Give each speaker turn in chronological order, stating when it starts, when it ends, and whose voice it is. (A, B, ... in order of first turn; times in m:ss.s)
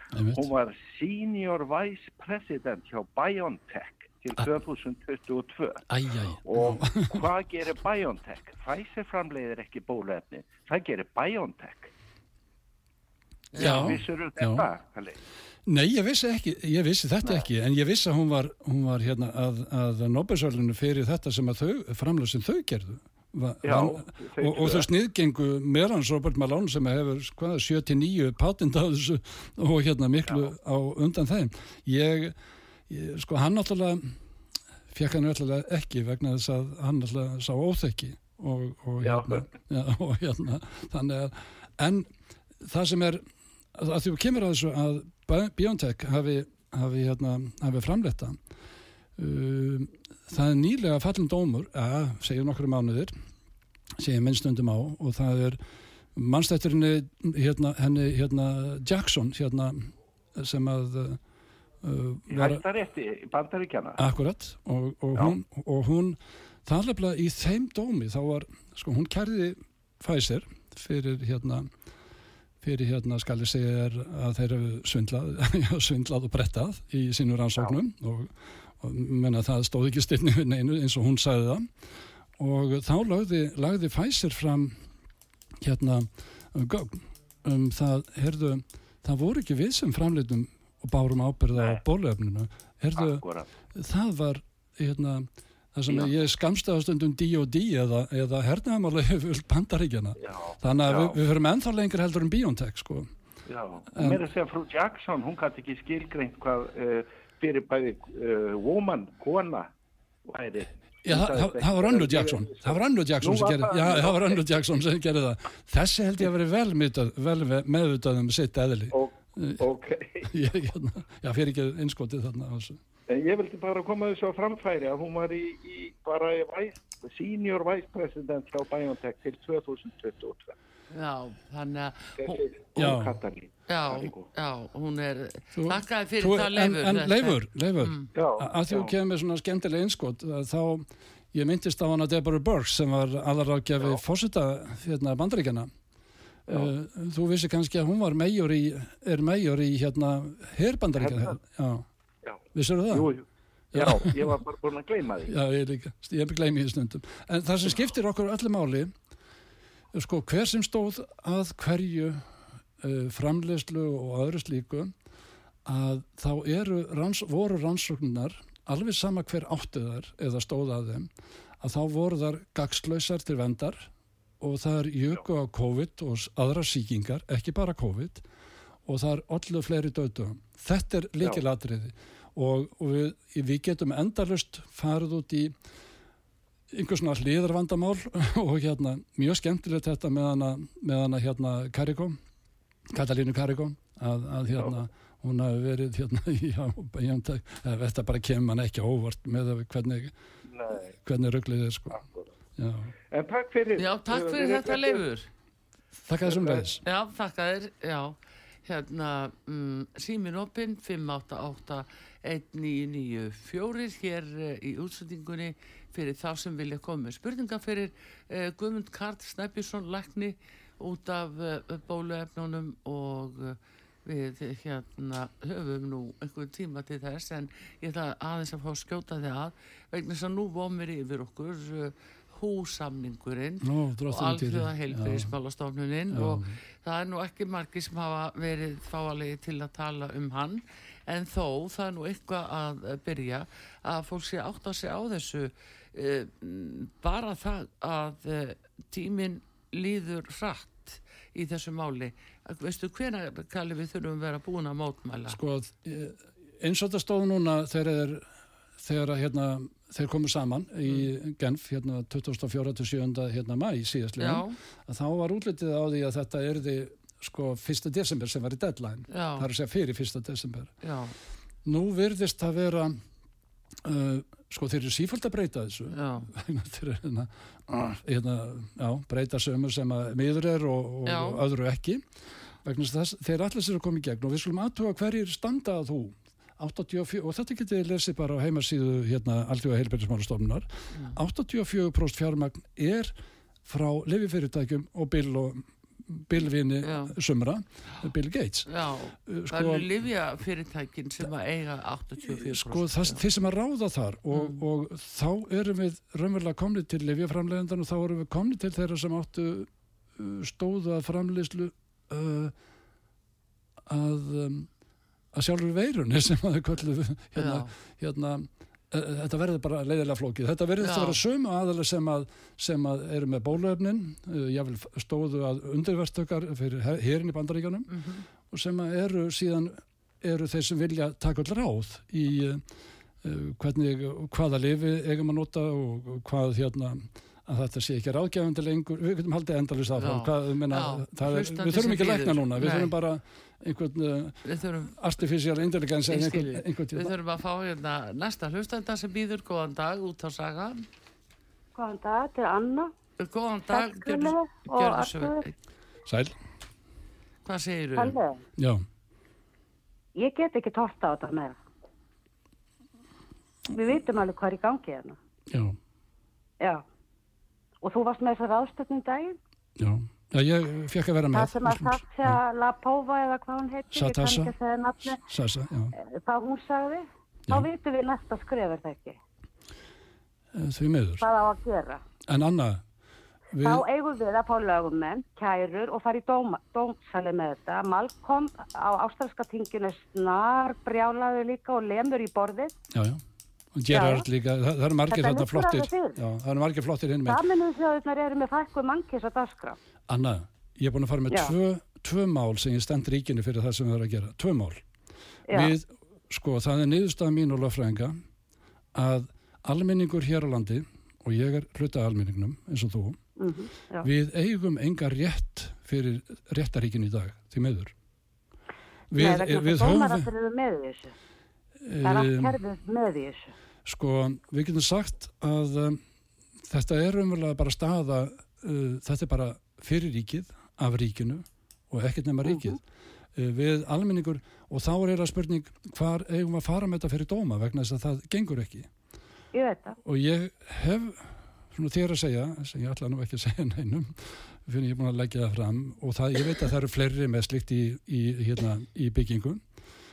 0:00.1-0:00.5 A
0:00.4-0:05.8 B
0:05.9-0:07.3 A
0:06.4-0:11.9 B
0:13.5-0:14.0 C
0:13.6-0:14.7 A
0:13.6-0:15.2 B
0:15.7-0:32.4 A
0:23.6-0:24.9 B
0:32.9-0:34.2 A
0:34.9-0:42.1 A
0:39.0-0:39.4 B
0:42.6-0:43.2 A
0:43.8-0:48.4 A
0:49.2-0:53.1 A
0:54.0-0:55.6 A
0:56.2-1:01.2 A
1:01.8-1:02.6 A
1:02.3-1:04.0 B
1:04.0-1:11.7 A
1:12.6-1:21.7 A
1:22.4-1:24.8 A
1:25.6-1:33.2 A
1:33.0-1:33.5 B
1:33.7-1:43.1 A
1:40.2-1:41.2 B
1:43.5-1:49.7 B
1:43.9-1:44.2 A
1:50.3-1:54.4 B
1:51.0-1:59.6 A
1:58.9-2:00.3 B
2:00.2-2:02.8 A
2:03.1-2:10.6 B
2:10.9-2:12.5 C
2:12.2-2:14.3 B
2:12.8-2:13.2 A
2:13.7-2:18.1 C
2:15.6-2:25.7 A
2:18.2-2:18.9 B
2:26.5-2:31.9 A
2:31.0-2:31.3 B
2:32.2-2:35.3 B
2:32.5-2:33.1 A
2:33.7-2:34.4 A
2:35.3-2:38.9 A
2:39.9-2:42.3 A
2:42.8-2:44.9 A
2:45.6-2:51.1 A
2:51.6-2:58.2 A
2:58.9-3:05.5 A
3:06.7-3:12.2 A
3:12.9-3:20.1 A
3:20.5-3:20.9 B
3:21.0-3:22.0 A
3:22.6-3:22.9 A
3:23.1-3:25.0 B
3:23.8-3:25.3 C
3:26.0-3:26.8 A
3:26.3-3:26.6 B
3:26.8-4:15.4 C
3:53.6-3:55.3 A
3:56.1-3:56.6 A
4:15.3-4:18.3 A
4:18.8-4:30.7 A
4:24.2-4:24.6 C
4:29.1-4:29.5 C
4:30.8-4:31.2 C
4:31.6-4:33.0 A
4:33.8-4:42.0 A
4:35.9-4:36.3 C
4:41.1-4:41.4 C
4:42.6-4:53.1 A
4:53.6-4:58.7 A
4:56.8-4:57.1 C
4:58.7-5:03.2 C
4:59.3-4:59.9 A
5:02.2-5:12.5 A
5:04.3-5:04.6 C
5:13.9-5:14.7 A
5:15.3-5:27.9 A
5:17.4-5:17.7 C
5:20.8-5:21.2 C
5:27.9-5:28.2 C
5:28.5-5:32.6 A
5:33.2-5:44.4 A
5:40.0-5:43.0 C
5:44.4-5:45.0 C
5:44.9-5:47.1 A
5:46.1-5:50.9 C
5:51.8-5:52.9 D
5:53.2-5:55.5 C
5:53.7-5:55.5 D
5:56.1-5:56.3 A
5:57.4-5:58.2 C
5:58.0-5:58.4 D
5:58.6-5:58.8 A
6:00.2-6:01.6 D
6:03.7-6:05.2 D
6:05.5-6:05.8 A
6:07.8-6:09.4 D
6:09.8-6:12.4 A
6:11.3-6:15.2 D
6:13.9-6:14.5 A
6:15.1-6:15.9 A
6:15.9-6:19.2 D
6:20.5-6:21.3 A
6:21.2-6:22.0 D
6:22.3-6:22.8 A
6:23.5-6:23.8 A
6:23.6-6:32.7 D
6:32.9-6:33.2 A
6:33.8-6:37.4 A
6:33.9-6:34.3 D
6:35.1-6:36.2 D
6:37.3-6:39.8 D
6:40.1-6:44.8 A
6:45.5-6:45.8 D
6:45.5-6:48.2 A
6:49.0-6:53.2 A
6:53.4-6:54.1 D
6:54.0-6:57.9 A
6:59.1-7:01.1 D
6:59.1-7:00.3 A
7:01.8-7:02.6 A
7:02.0-7:03.5 D
7:03.8-7:06.0 A
7:06.6-7:12.8 A
7:12.5-7:12.8 D
7:13.4-7:18.9 A
7:19.5-7:20.0 D
7:20.0-7:29.6 A